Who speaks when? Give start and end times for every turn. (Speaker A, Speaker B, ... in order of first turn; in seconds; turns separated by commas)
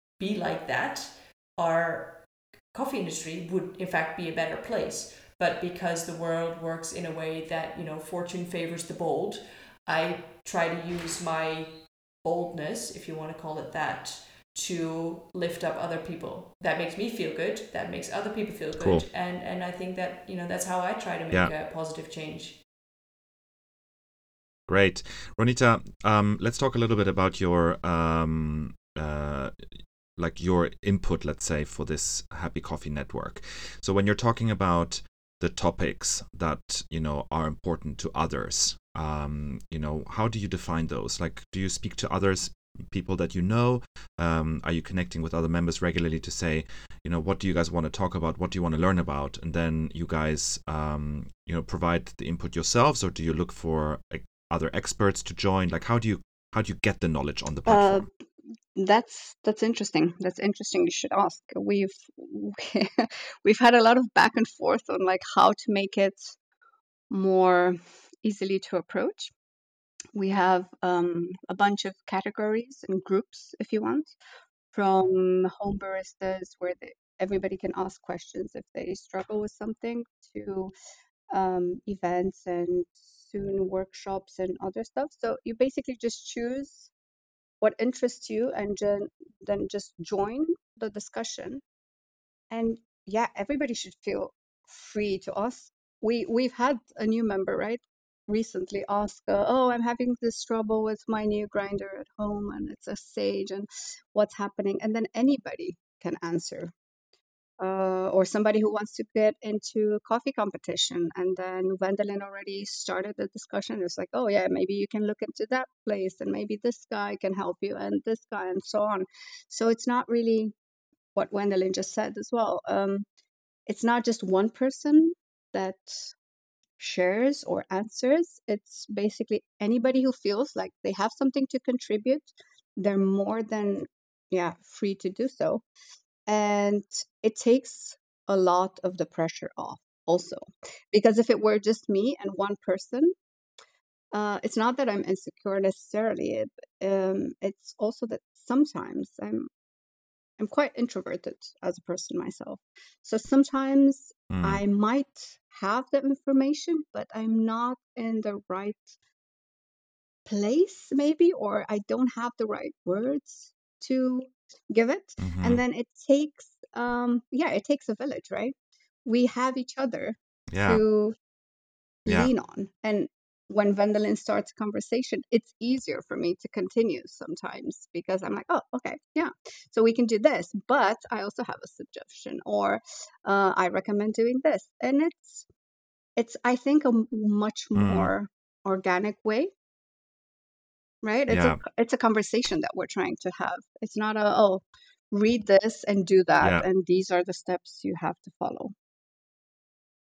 Speaker A: 0.2-22.6, Speaker B: 18.8-19.1, Speaker B: 24.7-29.7, Speaker B: 30.2-58.1, Speaker C: 57.7-58.1, Speaker C: 58.8-66.4, Speaker C: 67.1-69.3, Speaker C: 70.1-74.1, Speaker C: 74.7-80.7, Speaker C: 81.3-86.9, Speaker C: 87.6-91.6, Speaker C: 92.5-106.7, Speaker C: 107.6-120.5, Speaker C: 121.2-123.1, Speaker C: 123.7-126.1, Speaker C: 126.8-135.6, Speaker C: 136.3-143.2, Speaker C: 144.1-149.5, Speaker C: 150.4-159.0, Speaker B: 154.3-154.6, Speaker C: 160.3-171.2, Speaker B: 165.2-165.6, Speaker B: 170.5-170.8, Speaker C: 172.1-185.5, Speaker C: 186.2-189.5, Speaker B: 187.8-188.1, Speaker C: 191.0-198.7, Speaker B: 191.3-191.6, Speaker B: 196.4-196.7